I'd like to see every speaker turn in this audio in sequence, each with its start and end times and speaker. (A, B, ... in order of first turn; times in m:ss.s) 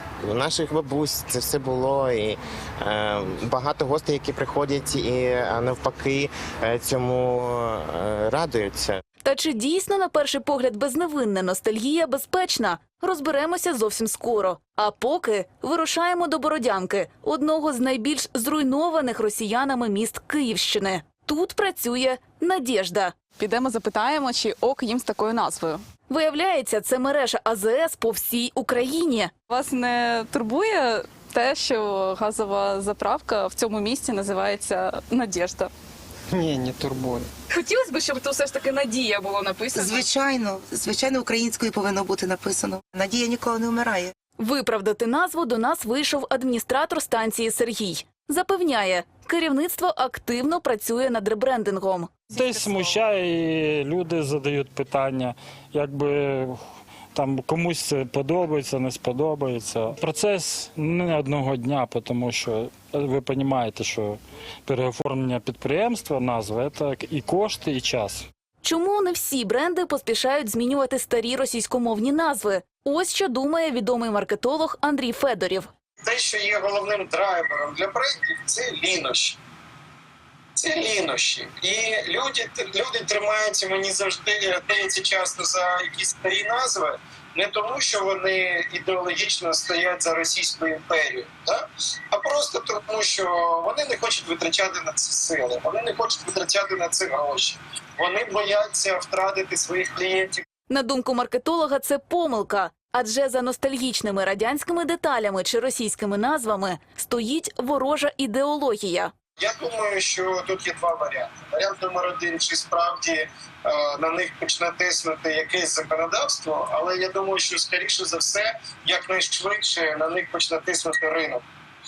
0:00.2-0:09.0 A
0:09.2-0:23.1 B
0:23.4-0:25.8 C
0:26.1-0:29.3 B
0:29.5-0:35.7 C
0:37.5-0:40.1 C
0:39.8-0:44.1 D
0:44.4-0:52.1 B
0:52.3-0:56.6 E
0:57.1-1:08.2 E
1:08.6-1:15.7 B
1:16.0-1:19.4 F
1:20.6-1:40.4 F
1:40.7-1:49.1 B
1:49.4-2:01.4 F